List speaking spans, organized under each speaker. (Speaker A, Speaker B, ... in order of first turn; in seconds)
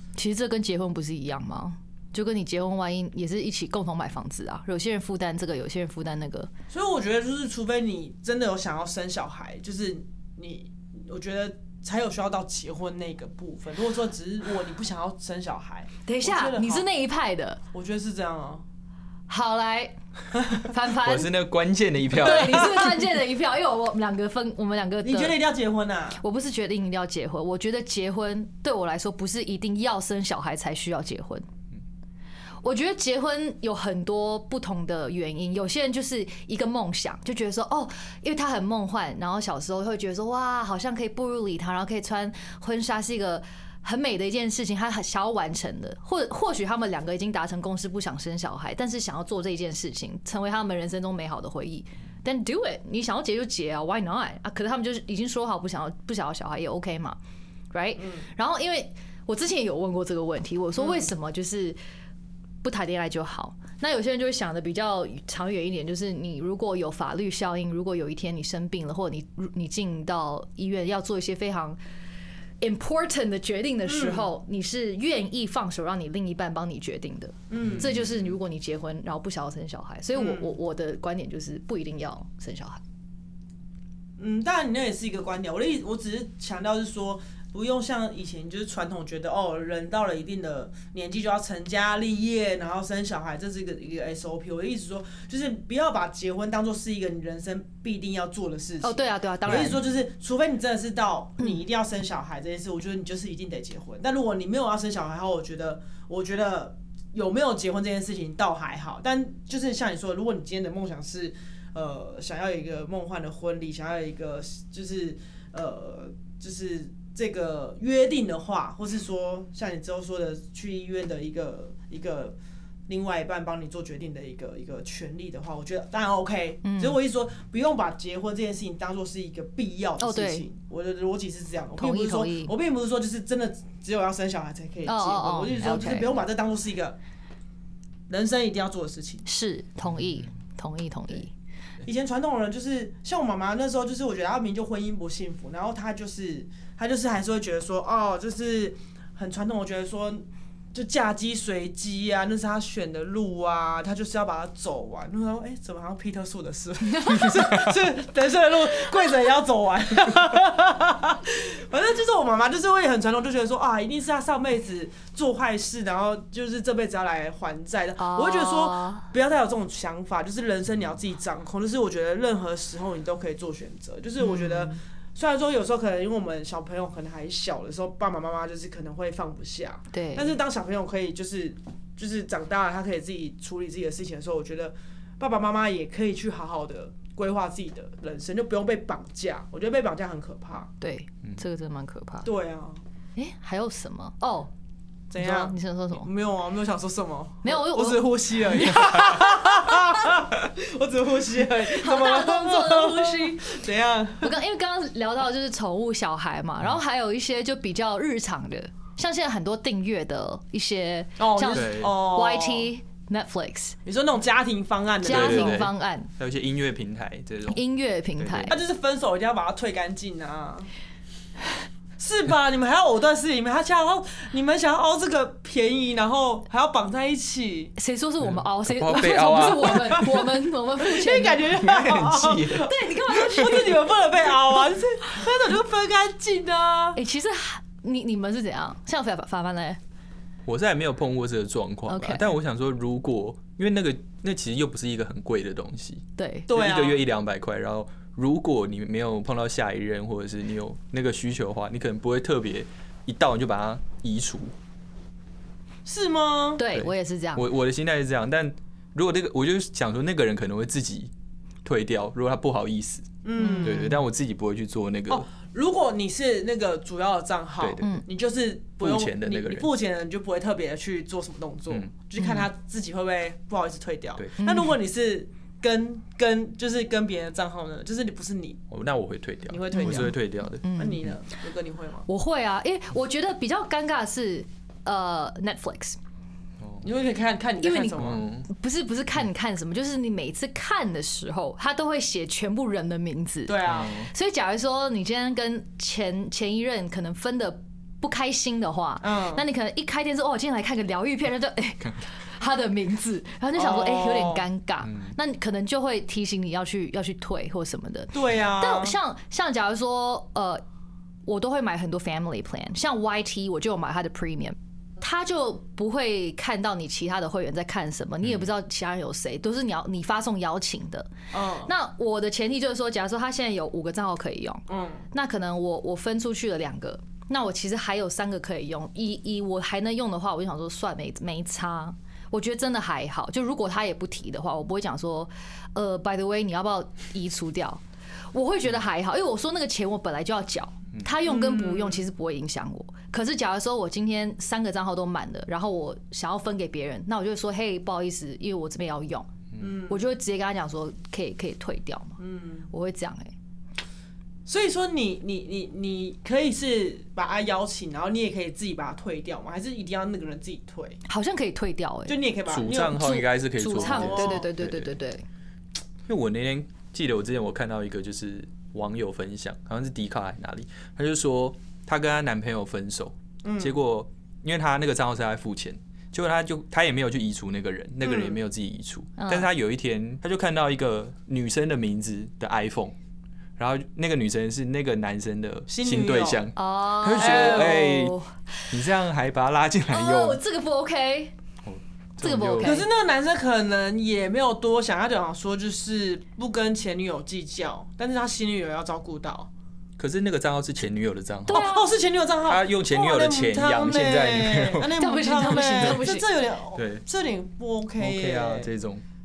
Speaker A: 0.2-6.5, 16.1-17.6, 19.3-19.9, 20.6-21.3, 22.1-25.4, 26.2-31.4, 32.6-57.2, 57.7-61.8, 62.6-71.8, 72.6-82.8, 98.8-99.8, 126.6-127.0, 130.0-130.4, 131.8-132.5, 134.8-136.2, 139.2-141.3, 168.0-169.1, 174.2-174.8, 179.9-180.3, 190.8-192.3, 193.2-194.5, 195.2-196.1, 197.4-198.0, 199.5-200.0, 201.7-203.6, 204.2-213.8, 215.0-216.1, 217.5-218.6, 227.8-231.5, 232.5-233.8, 236.9-239.8, 241.9-242.3, 246.2-246.5, 256.6-257.4, 263.4-264.0, 272.2-272.5, 274.4-274.7, 279.7-281.1, 282.1-286.0, 287.6-310.6, 311.2-321.1, 321.6-337.8, 338.3-349.3, 349.9-352.2, 352.7-353.3, 361.1-362.2, 362.9-365.2, 379.2-379.5, 386.6-388.3, 389.9-391.3, 392.2-392.9, 401.5-401.9, 404.9-406.3
Speaker B: 6.7-16.9, 17.7-18.6, 25.0-26.2, 58.0-58.2, 60.8-61.1, 73.8-74.3, 77.5-78.0, 80.1-80.5, 84.2-122.3, 122.9-137.0, 138.1-139.2, 141.8-190.7, 192.2-192.8, 195.1-204.3, 211.2-212.7, 213.8-215.6, 218.5-220.7, 222.0-227.7, 229.2-237.0, 246.5-247.0, 255.8-256.6, 263.2-263.9, 265.1-278.6, 279.5-280.2, 280.7-282.1, 286.8-288.2, 293.5-293.9, 299.0-299.4, 303.6-304.4, 308.1-309.0, 321.3-321.7, 324.7-325.1, 341.2-342.1, 349.6-350.0, 352.2-352.7, 354.4-361.0, 362.1-363.1, 363.8-364.5, 373.4-373.8, 378.0-378.4, 385.7-386.5, 387.2-387.8, 392.6-399.5, 401.5-408.7
Speaker C: 21.0-22.9, 77.6-78.3, 139.9-140.3, 211.5-211.9, 215.0-217.6, 218.2-218.6, 228.2-230.2, 231.5-232.7, 240.4-254.5, 256.7-261.1, 261.6-265.2, 267.6-267.9, 268.8-269.7, 278.7-281.1, 288.0-288.5, 293.6-294.1, 304.8-305.1, 318.2-318.5, 362.5-364.9, 366.1-382.9, 383.6-388.1, 388.7-390.4, 391.6-392.8, 400.0-401.7, 402.4-404.9, 405.7-406.0, 406.7-407.0, 408.0-409.0